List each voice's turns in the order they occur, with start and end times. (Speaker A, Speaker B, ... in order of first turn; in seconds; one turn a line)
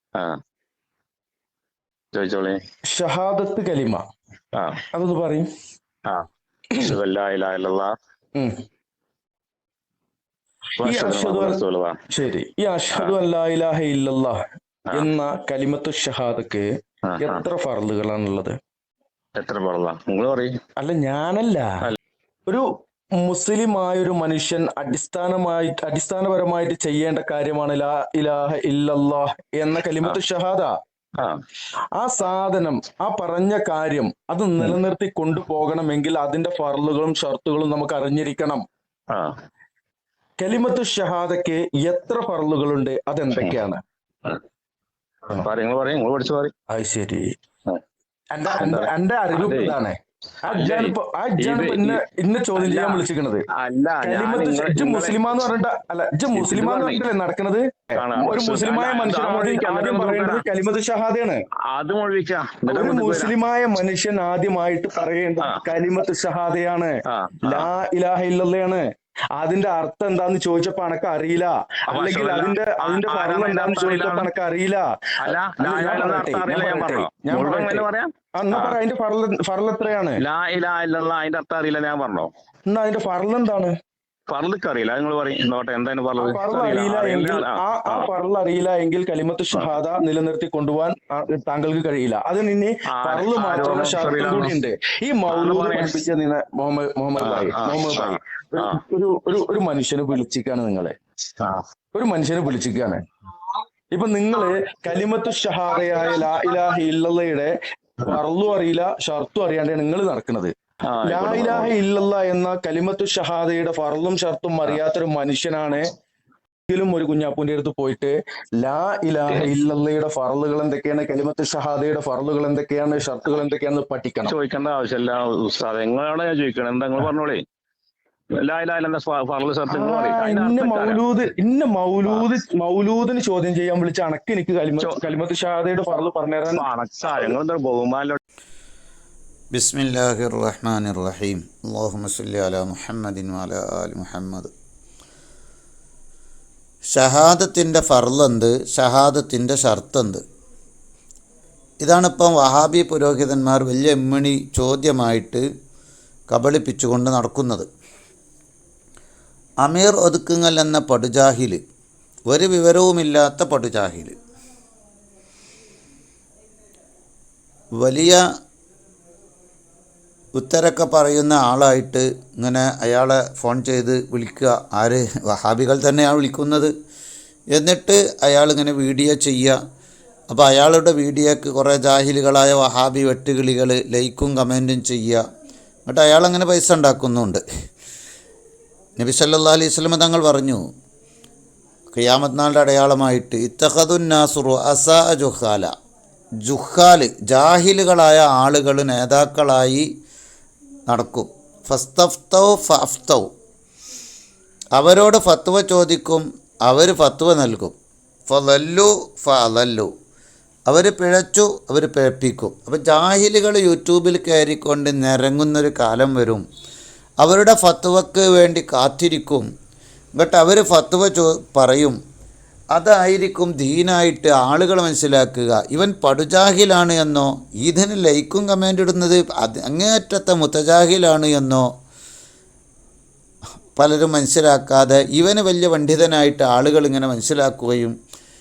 Speaker A: 2.1-2.6
Speaker B: 2.9-4.0
Speaker A: 4.5-4.8
Speaker B: 4.9-5.5
Speaker A: 6.0-7.9
Speaker B: 8.3-8.6
Speaker A: 10.8-12.0
Speaker B: 10.8-14.4
Speaker B: 14.9-16.7
Speaker A: 17.0-17.4
Speaker B: 17.2-18.6
Speaker A: 19.4-20.6
Speaker B: 20.8-21.7
Speaker B: 23.2-30.7
Speaker B: 32.0-38.6
Speaker B: 40.4-43.8
Speaker A: 45.3-46.5
Speaker B: 46.7-47.3
Speaker B: 48.3-53.4
Speaker A: 48.6-49.7
Speaker A: 50.5-52.0
Speaker A: 52.6-53.0
Speaker A: 53.5-55.4
Speaker B: 54.0-61.4
Speaker A: 56.3-57.0
Speaker A: 58.0-60.4
Speaker A: 61.7-63.3
Speaker B: 62.7-74.9
Speaker A: 67.1-67.7
Speaker A: 71.9-74.3
Speaker A: 75.2-78.8
Speaker B: 75.5-80.2
Speaker A: 80.2-82.3
Speaker B: 82.7-83.7
Speaker A: 84.3-88.1
Speaker B: 86.2-101.0
Speaker A: 92.9-94.5
Speaker A: 95.3-96.0
Speaker A: 97.2-98.8
Speaker B: 101.9-103.0
Speaker B: 103.9-110.5
Speaker A: 110.8-111.7
Speaker B: 111.0-115.9
Speaker B: 116.7-124.3
Speaker A: 124.2-127.4
Speaker A: 128.3-131.0
Speaker B: 129.7-136.6
Speaker A: 136.5-138.2
Speaker C: 139.5-144.5
Speaker C: 146.9-150.2
Speaker C: 151.8-155.4
Speaker C: 156.3-157.7
Speaker C: 159.6-161.6
Speaker C: 162.3-164.2
Speaker C: 167.8-168.2
Speaker C: 170.4-176.7
Speaker C: 177.5-179.6
Speaker C: 180.3-185.2
Speaker C: 185.9-187.4
Speaker C: 189.0-190.6
Speaker C: 191.9-195.7
Speaker C: 196.4-199.9
Speaker C: 200.9-203.3
Speaker C: 204.8-207.8
Speaker C: 208.3-209.9
Speaker C: 210.7-216.4
Speaker C: 217.2-219.4
Speaker C: 220.2-222.0
Speaker C: 222.7-231.7
Speaker C: 233.8-237.9